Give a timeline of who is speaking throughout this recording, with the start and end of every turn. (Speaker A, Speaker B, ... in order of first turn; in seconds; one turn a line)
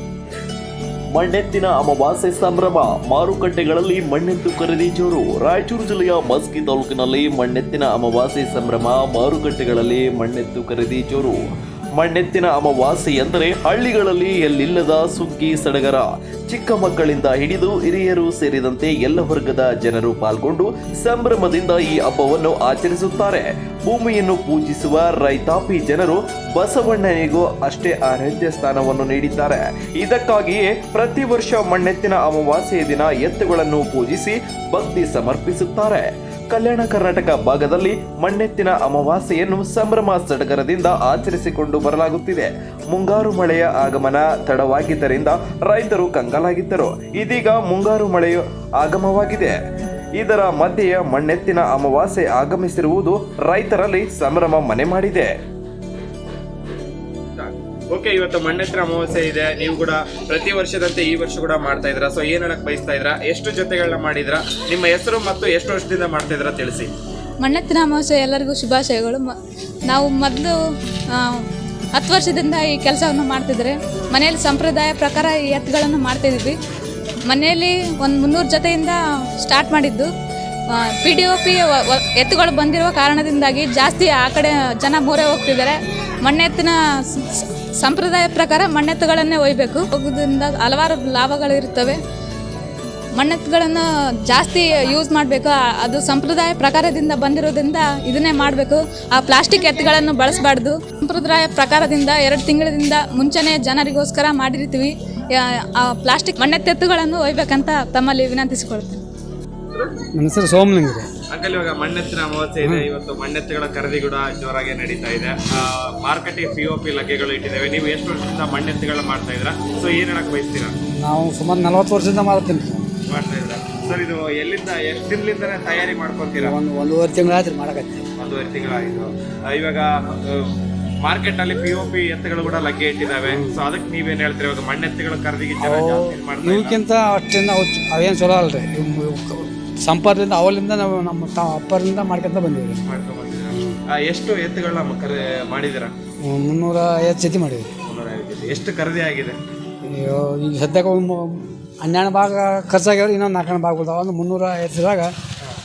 Speaker A: 1.1-11.4
Speaker A: 11.9-49.5
Speaker A: 50.2-55.3
Speaker B: 57.4-66.9
Speaker C: 67.4-69.3
Speaker C: 69.9-70.5
Speaker C: 71.1-76.6
Speaker C: 77.3-80.1
Speaker C: 80.7-92.0
Speaker C: 93.2-109.0
Speaker D: 110.1-111.1
Speaker B: 111.3-120.7
Speaker A: 111.8-112.3
Speaker D: 112.6-112.9
Speaker D: 121.0-122.9
Speaker B: 123.1-126.5
Speaker D: 126.4-128.0
Speaker B: 128.2-130.5
Speaker B: 131.0-136.8
Speaker D: 133.2-133.6
Speaker A: 134.2-135.4
Speaker D: 135.6-142.8
Speaker B: 142.9-145.9
Speaker D: 143.5-143.8
Speaker A: 144.1-145.0
Speaker A: 145.6-145.8
Speaker D: 146.2-147.7
Speaker B: 147.9-149.3
Speaker D: 149.8-155.1